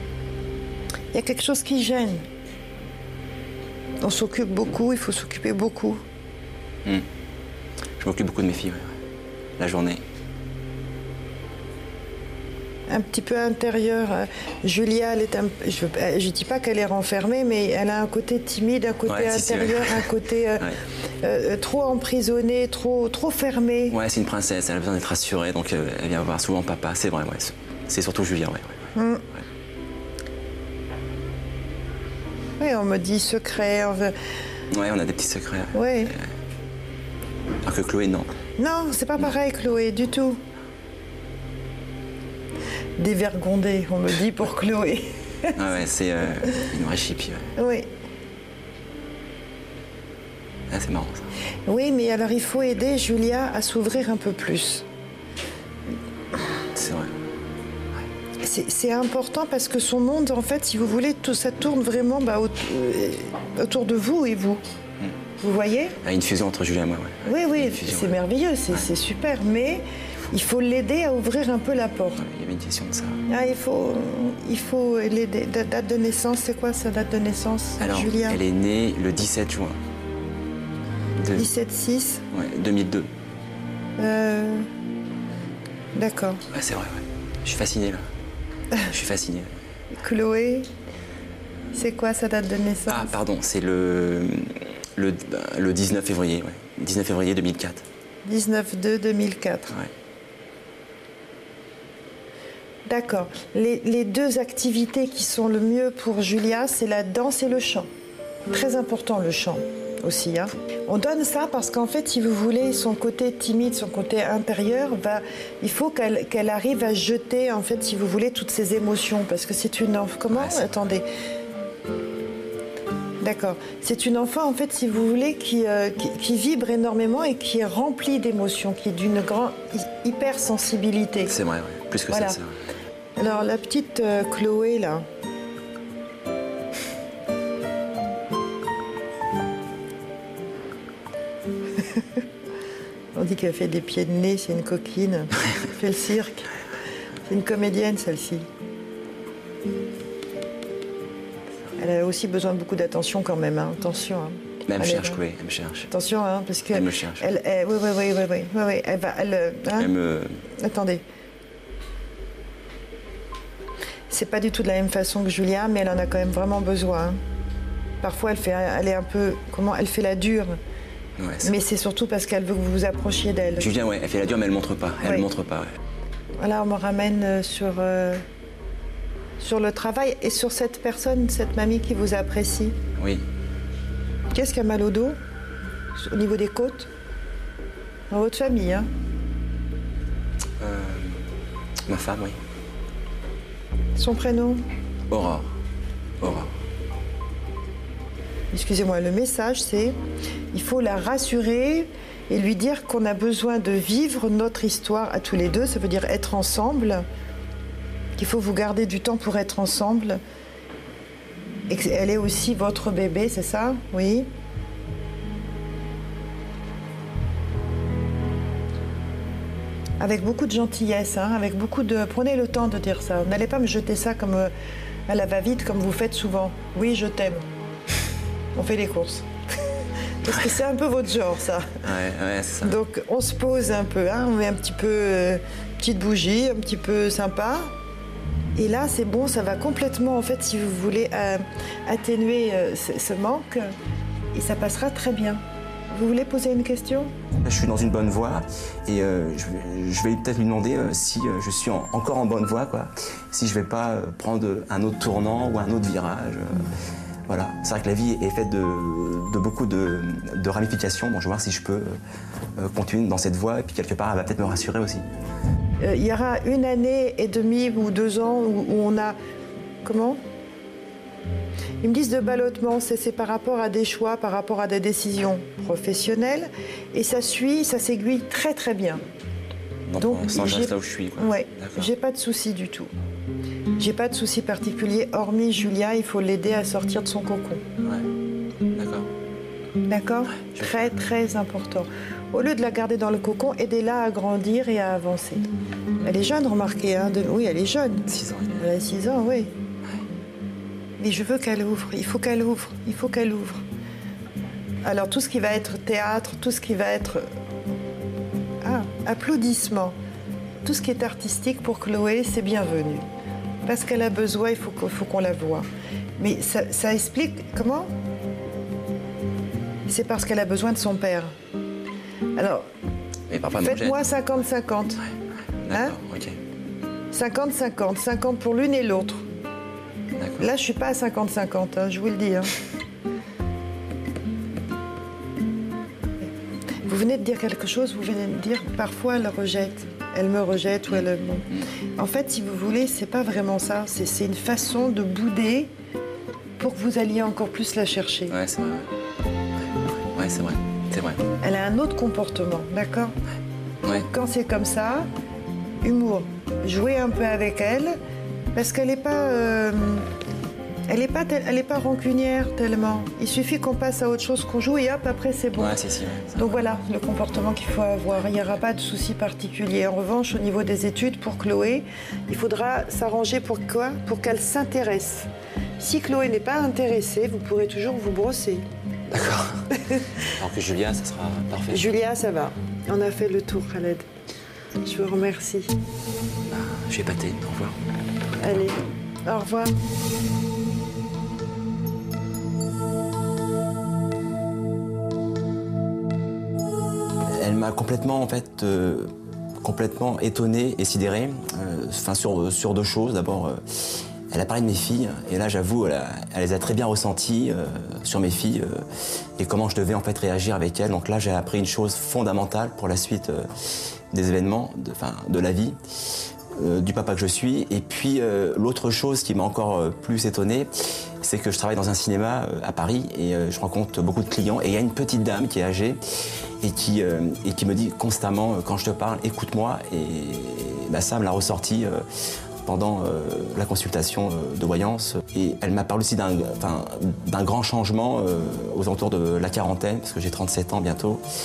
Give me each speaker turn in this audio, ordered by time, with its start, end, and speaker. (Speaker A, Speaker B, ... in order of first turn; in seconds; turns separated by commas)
Speaker A: 1.1-2.2, Speaker A: 4.0-6.0, Speaker B: 8.0-8.9, Speaker B: 9.6-10.0, Speaker A: 12.9-24.0, Speaker B: 19.1-20.8, Speaker B: 23.9-28.9, Speaker A: 28.9-29.2, Speaker A: 32.6-34.1, Speaker B: 34.7-36.2, Speaker A: 35.7-36.1, Speaker B: 37.6-38.3, Speaker A: 38.6-40.4, Speaker A: 43.0-45.5, Speaker B: 45.5-47.5, Speaker A: 47.5-47.9, Speaker B: 50.7-51.3, Speaker A: 51.6-54.9, Speaker B: 56.7-57.1, Speaker A: 58.4-64.6, Speaker A: 65.4-66.0, Speaker B: 66.0-68.2, Speaker A: 67.2-72.2, Speaker B: 72.2-73.2, Speaker A: 73.3-78.4, Speaker B: 77.8-79.8, Speaker B: 81.2-81.5, Speaker A: 81.3-82.2, Speaker B: 82.3-83.1, Speaker A: 84.0-84.7, Speaker A: 85.9-86.4, Speaker B: 86.5-88.0, Speaker B: 88.9-89.5, Speaker A: 89.9-90.7, Speaker A: 91.7-93.1, Speaker B: 92.9-97.8, Speaker A: 98.2-99.8, Speaker A: 102.8-107.9, Speaker A: 108.5-121.0, Speaker B: 120.3-120.9, Speaker A: 123.2-131.3, Speaker B: 131.2-132.6, Speaker A: 132.1-132.4, Speaker A: 133.2-135.0, Speaker A: 141.8-142.2, Speaker A: 143.1-146.5, Speaker A: 147.2-148.4, Speaker A: 151.8-155.2, Speaker B: 154.7-155.9, Speaker A: 155.9-159.9, Speaker B: 156.7-157.3, Speaker B: 159.8-160.4, Speaker A: 160.6-161.0, Speaker A: 164.1-167.2, Speaker A: 168.0-170.6, Speaker B: 171.2-171.5, Speaker A: 171.4-173.7, Speaker B: 173.6-175.7, Speaker A: 175.0-175.3, Speaker A: 176.4-178.2, Speaker A: 179.4-182.8, Speaker B: 182.9-183.2, Speaker A: 184.3-185.2, Speaker A: 185.9-186.9, Speaker A: 188.1-188.9, Speaker B: 190.6-191.2, Speaker B: 191.9-192.4, Speaker A: 193.9-194.6, Speaker B: 195.1-195.5, Speaker B: 196.2-196.5, Speaker A: 198.5-200.0, Speaker A: 200.5-207.0, Speaker A: 208.2-210.2, Speaker A: 211.7-214.3, Speaker A: 220.0-224.5, Speaker A: 225.1-227.4, Speaker A: 228.5-229.3, Speaker A: 230.2-231.8, Speaker B: 231.8-232.8, Speaker A: 232.6-237.7, Speaker A: 238.6-243.7, Speaker A: 244.3-247.1, Speaker B: 247.4-256.7, Speaker B: 257.3-261.9, Speaker B: 262.6-265.0, Speaker A: 265.8-269.2, Speaker A: 269.8-270.2, Speaker A: 271.8-279.0, Speaker B: 279.9-281.9, Speaker A: 280.0-282.9, Speaker A: 283.8-287.6, Speaker B: 287.8-288.1, Speaker B: 288.7-289.1, Speaker A: 289.9-295.5, Speaker B: 290.5-291.0, Speaker A: 296.0-299.5, Speaker B: 298.1-298.7, Speaker A: 301.0-303.6, Speaker A: 304.8-307.3, Speaker A: 308.6-309.9, Speaker A: 310.6-313.1, Speaker A: 313.6-317.9, Speaker A: 319.9-321.3, Speaker A: 322.4-322.7, Speaker B: 323.3-324.1, Speaker A: 323.5-325.0, Speaker B: 325.6-326.4, Speaker A: 327.1-329.2, Speaker B: 330.1-330.5, Speaker A: 330.4-332.5, Speaker A: 336.8-345.7, Speaker B: 340.9-341.7, Speaker A: 346.6-348.4, Speaker B: 348.3-348.9, Speaker B: 350.1-351.2, Speaker A: 351.4-353.1, Speaker B: 353.8-354.1, Speaker A: 353.9-355.1, Speaker A: 355.8-358.0, Speaker A: 358.5-360.1, Speaker A: 360.9-365.7, Speaker B: 365.6-366.6, Speaker A: 366.4-378.6, Speaker B: 379.1-379.7, Speaker B: 380.3-381.9, Speaker A: 381.7-384.1, Speaker A: 384.8-385.7, Speaker B: 386.5-387.8, Speaker A: 388.4-389.8, Speaker B: 397.3-399.1, Speaker B: 399.6-408.8, Speaker B: 409.4-413.5, Speaker B: 414.1-415.8, Speaker B: 416.6-420.7, Speaker B: 421.2-426.0, Speaker B: 426.6-432.0, Speaker B: 432.6-441.2